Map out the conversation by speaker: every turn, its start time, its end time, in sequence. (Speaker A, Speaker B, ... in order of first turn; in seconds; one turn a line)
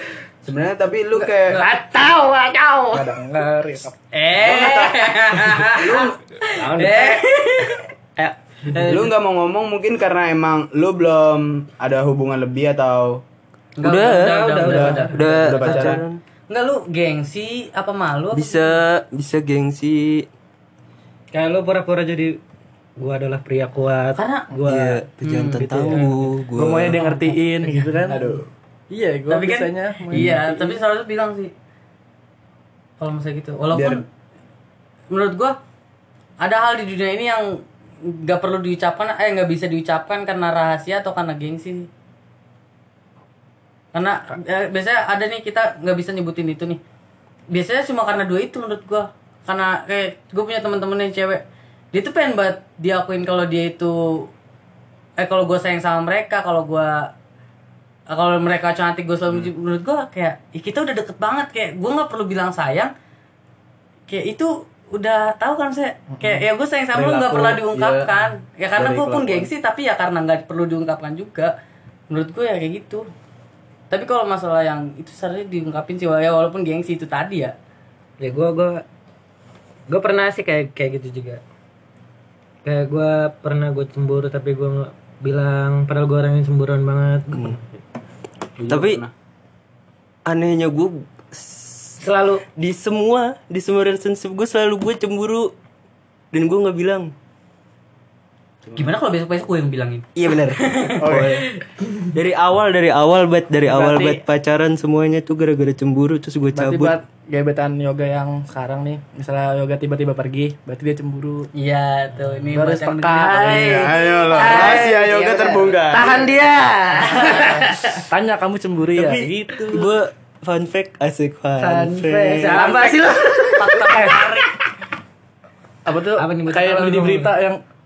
Speaker A: 0.4-1.6
Speaker B: 1.5-3.1
Speaker C: 2.9-4.0
Speaker D: 4.1-7.8
Speaker A: 4.4-5.1
Speaker A: 5.6-6.2
Speaker B: 6.5-7.2
Speaker B: 8.2-9.1
Speaker D: 8.7-9.1
Speaker A: 8.9-13.2
Speaker D: 13.8-15.3
Speaker E: 13.8-16.2
Speaker B: 14.0-16.0
Speaker A: 14.6-16.0
Speaker D: 16.5-18.8
Speaker E: 18.3-20.3
Speaker B: 21.3-22.4
Speaker B: 23.0-25.0
Speaker D: 24.1-24.5
Speaker E: 24.6-27.0
Speaker D: 25.2-25.9
Speaker B: 25.6-26.3
Speaker C: 26.5-28.4
Speaker B: 26.9-28.2
Speaker A: 28.1-28.5
Speaker C: 28.9-30.8
Speaker D: 29.3-31.5
Speaker D: 33.0-34.0
Speaker A: 33.7-34.0
Speaker D: 35.1-35.5
Speaker D: 36.4-41.9
Speaker D: 43.9-46.8
Speaker D: 47.5-51.4
Speaker D: 51.9-54.3
Speaker D: 55.2-57.1
Speaker D: 58.1-62.9
Speaker D: 64.1-71.5
Speaker C: 66.1-66.4
Speaker A: 66.9-68.1
Speaker A: 68.8-69.5
Speaker D: 72.1-73.0
Speaker D: 73.9-77.5
Speaker B: 78.2-78.8
Speaker B: 79.9-81.4
Speaker B: 82.6-87.6
Speaker A: 88.6-89.1
Speaker E: 88.7-89.0
Speaker E: 90.2-92.0
Speaker B: 92.0-92.4
Speaker E: 92.5-95.5
Speaker E: 96.3-97.1
Speaker A: 98.7-98.9
Speaker D: 98.8-102.1
Speaker E: 100.2-101.5
Speaker A: 101.0-101.4
Speaker E: 102.1-107.0
Speaker D: 103.7-104.1
Speaker C: 106.5-111.5
Speaker D: 111.5-114.9
Speaker C: 112.5-113.9
Speaker B: 113.3-118.0
Speaker A: 113.7-116.2
Speaker D: 117.2-118.0
Speaker C: 117.2-117.5
Speaker C: 118.1-119.9
Speaker E: 118.9-122.6
Speaker B: 121.6-124.5
Speaker C: 122.5-123.2
Speaker D: 122.6-124.5
Speaker C: 123.9-124.2
Speaker C: 125.8-127.6
Speaker B: 126.2-127.3